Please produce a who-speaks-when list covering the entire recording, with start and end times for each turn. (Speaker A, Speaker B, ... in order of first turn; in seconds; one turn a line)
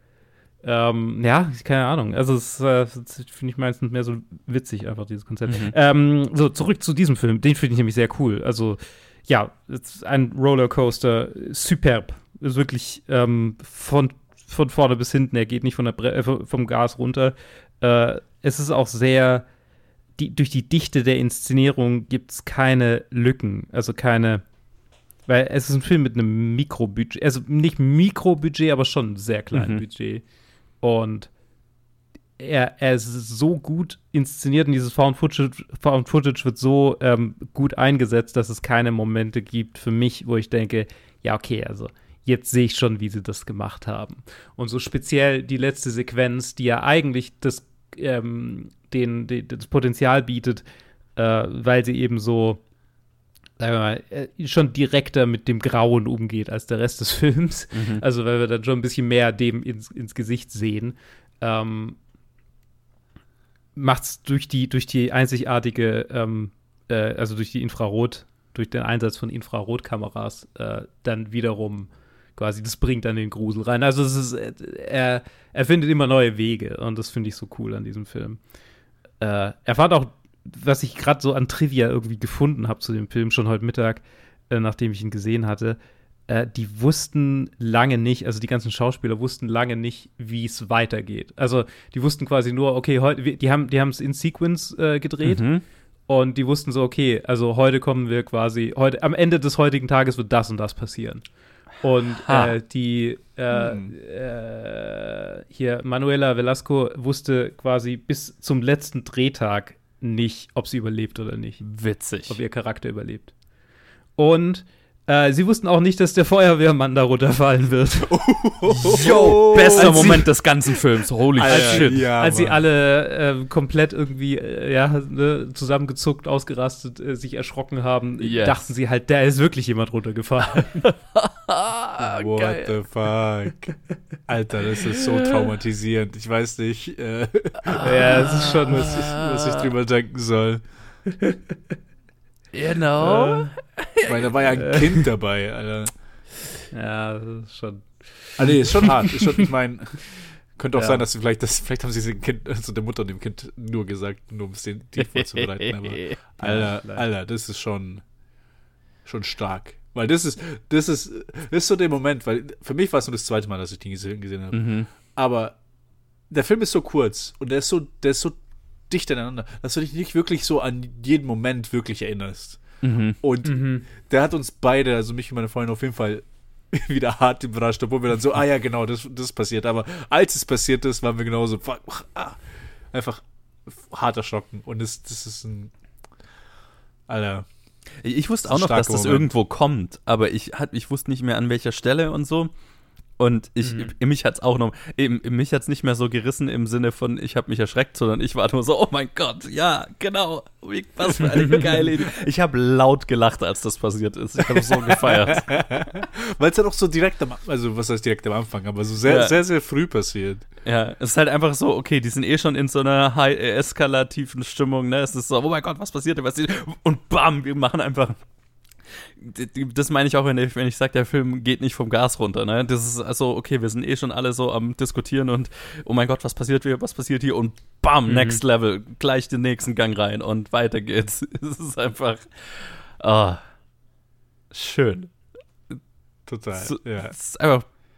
Speaker A: 0.6-19.5
Speaker B: 5.5-5.7
Speaker A: 20.1-24.4
Speaker A: 25.2-30.2
Speaker B: 29.5-29.8
Speaker A: 30.8-31.3
Speaker A: 32.4-52.6
Speaker A: 53.6-62.0
Speaker B: 57.7-58.0
Speaker A: 63.8-78.4
Speaker A: 79.2-111.6
Speaker B: 95.2-95.6
Speaker B: 102.2-102.5
Speaker C: 103.5-103.9
Speaker B: 111.6-112.4
Speaker A: 112.2-113.3
Speaker A: 114.2-120.3
Speaker C: 118.1-120.3
Speaker B: 118.7-122.1
Speaker C: 121.3-122.6
Speaker A: 121.5-130.9
Speaker B: 128.2-128.6
Speaker B: 131.1-132.7
Speaker C: 132.0-140.6
Speaker B: 137.7-139.7
Speaker A: 137.8-139.0
Speaker B: 142.5-144.2
Speaker A: 143.0-143.5
Speaker C: 144.0-145.9
Speaker A: 146.7-149.3
Speaker C: 148.4-158.0
Speaker A: 150.7-151.0
Speaker B: 155.0-156.2
Speaker A: 156.4-157.0
Speaker C: 159.0-165.6
Speaker B: 164.5-164.9
Speaker C: 166.3-185.7
Speaker B: 172.8-173.2
Speaker A: 173.4-173.9
Speaker C: 187.1-187.5
Speaker B: 188.0-192.5
Speaker C: 188.4-189.3
Speaker B: 193.2-205.9
Speaker A: 193.6-193.9
Speaker C: 204.5-210.4
Speaker B: 209.1-209.4
Speaker B: 210.6-218.2
Speaker B: 218.9-233.4
Speaker A: 228.1-228.4
Speaker B: 234.5-235.1
Speaker C: 236.2-237.1
Speaker B: 236.6-237.7